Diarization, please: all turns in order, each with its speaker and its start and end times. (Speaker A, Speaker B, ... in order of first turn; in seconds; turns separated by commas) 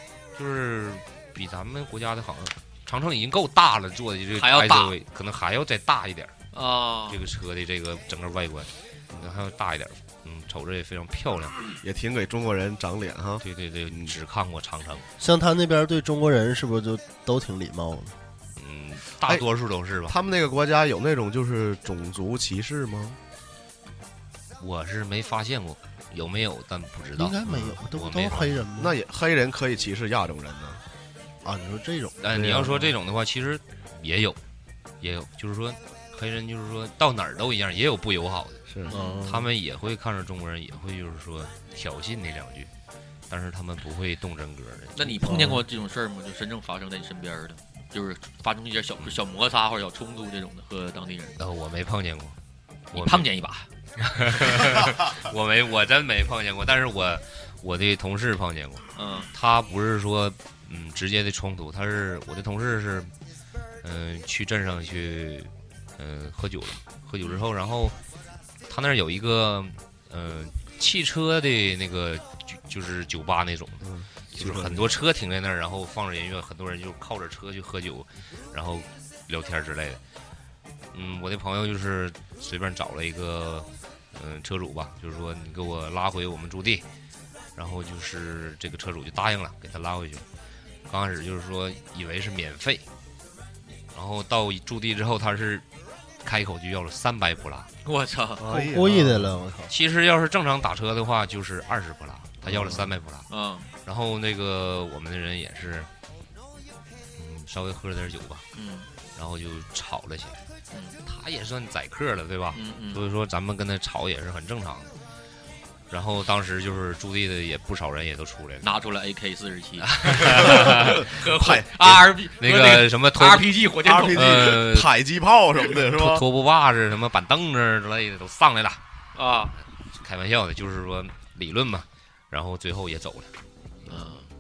Speaker A: 0.4-6.3, Speaker B: 4.4-4.9, Speaker B: 6.5-7.2, Speaker A: 7.1-11.6, Speaker C: 11.8-14.1, Speaker A: 13.4-15.1, Speaker D: 15.2-18.1, Speaker A: 18.6-20.1, Speaker C: 20.1-23.2, Speaker A: 24.6-28.7, Speaker D: 27.2-28.9, Speaker C: 28.8-30.8, Speaker D: 31.4-32.5, Speaker A: 32.2-34.4, Speaker C: 32.3-32.9, Speaker A: 35.0-38.6, Speaker C: 38.7-39.0, Speaker D: 38.9-39.5, Speaker B: 38.9-39.3, Speaker A: 39.3-42.7, Speaker A: 43.3-45.4, Speaker B: 45.0-51.4, Speaker D: 45.3-45.6, Speaker A: 51.4-52.4, Speaker A: 52.9-53.3, Speaker B: 52.9-53.7, Speaker A: 54.0-63.1, Speaker B: 54.4-54.7, Speaker B: 59.0-59.3, Speaker A: 63.8-68.0, Speaker A: 68.7-80.0, Speaker C: 73.8-74.9, Speaker A: 80.9-86.8, Speaker A: 87.6-90.2, Speaker A: 90.9-92.8, Speaker A: 93.9-95.7, Speaker A: 96.2-97.7, Speaker B: 97.8-98.4, Speaker C: 98.4-99.4, Speaker D: 98.5-99.7, Speaker A: 99.7-103.3, Speaker C: 102.4-102.9, Speaker B: 103.3-103.7, Speaker A: 103.8-105.9, Speaker A: 107.2-108.5, Speaker B: 108.5-108.9, Speaker A: 109.2-110.4, Speaker B: 110.7-111.0, Speaker A: 111.0-114.9, Speaker B: 112.5-113.0, Speaker A: 115.9-118.7, Speaker B: 118.6-124.3, Speaker A: 119.9-121.0, Speaker C: 120.7-121.9, Speaker A: 122.4-123.5, Speaker C: 123.8-126.2, Speaker A: 124.2-124.9, Speaker A: 125.8-128.8, Speaker B: 129.2-129.5, Speaker A: 129.9-133.3, Speaker B: 133.9-134.3